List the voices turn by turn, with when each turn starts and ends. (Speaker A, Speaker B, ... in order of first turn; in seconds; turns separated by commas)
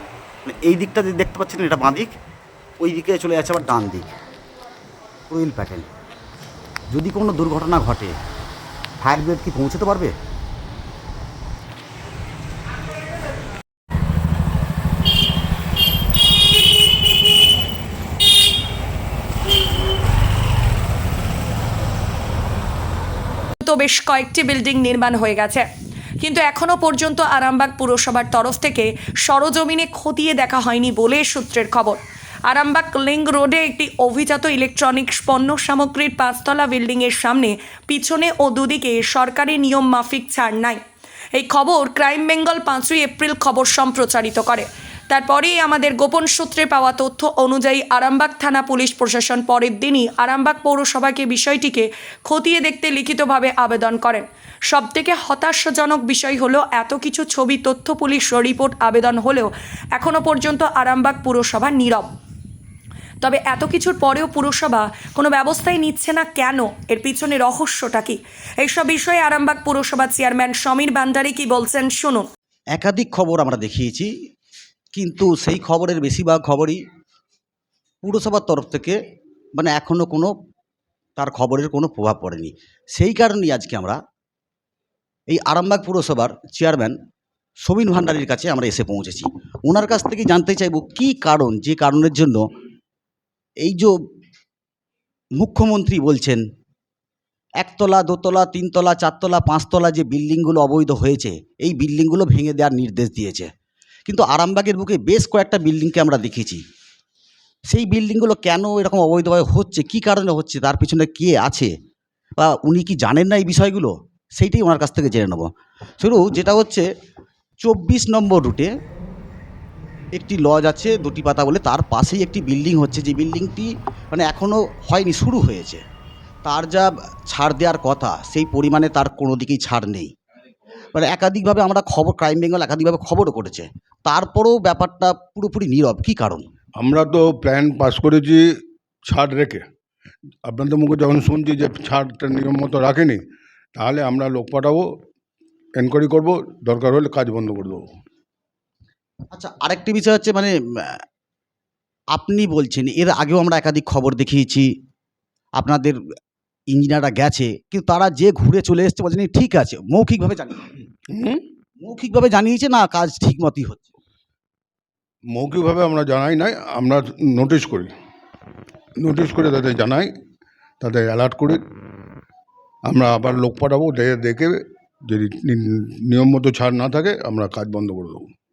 Speaker A: 0.5-2.1, Speaker A: 2.8-4.1, Speaker A: 5.3-5.9, Speaker A: 6.9-8.2, Speaker A: 9.0-10.1, Speaker B: 23.6-25.7, Speaker B: 26.2-40.8, Speaker B: 41.3-62.1, Speaker B: 63.2-72.3, Speaker A: 72.7-74.1, Speaker A: 74.9-76.8, Speaker A: 78.0-79.0, Speaker A: 79.5-80.3, Speaker A: 81.2-84.0, Speaker A: 85.3-87.0, Speaker A: 87.6-92.5, Speaker A: 93.6-93.9, Speaker A: 95.4-96.4, Speaker A: 97.6-103.5, Speaker A: 104.1-106.6, Speaker A: 107.7-111.7, Speaker A: 112.4-115.5, Speaker A: 116.0-116.9, Speaker A: 117.6-118.7, Speaker A: 120.1-125.8, Speaker A: 126.5-130.1, Speaker A: 130.9-136.5, Speaker C: 136.8-138.5, Speaker C: 139.1-139.7, Speaker C: 140.4-143.2, Speaker C: 143.8-144.9, Speaker C: 145.8-147.8, Speaker A: 149.3-151.0, Speaker A: 152.1-154.7, Speaker A: 155.6-156.0, Speaker A: 156.7-160.8, Speaker C: 161.1-161.4, Speaker A: 161.8-163.9, Speaker C: 165.3-167.9, Speaker C: 169.0-170.1, Speaker C: 170.8-171.6, Speaker C: 172.9-178.3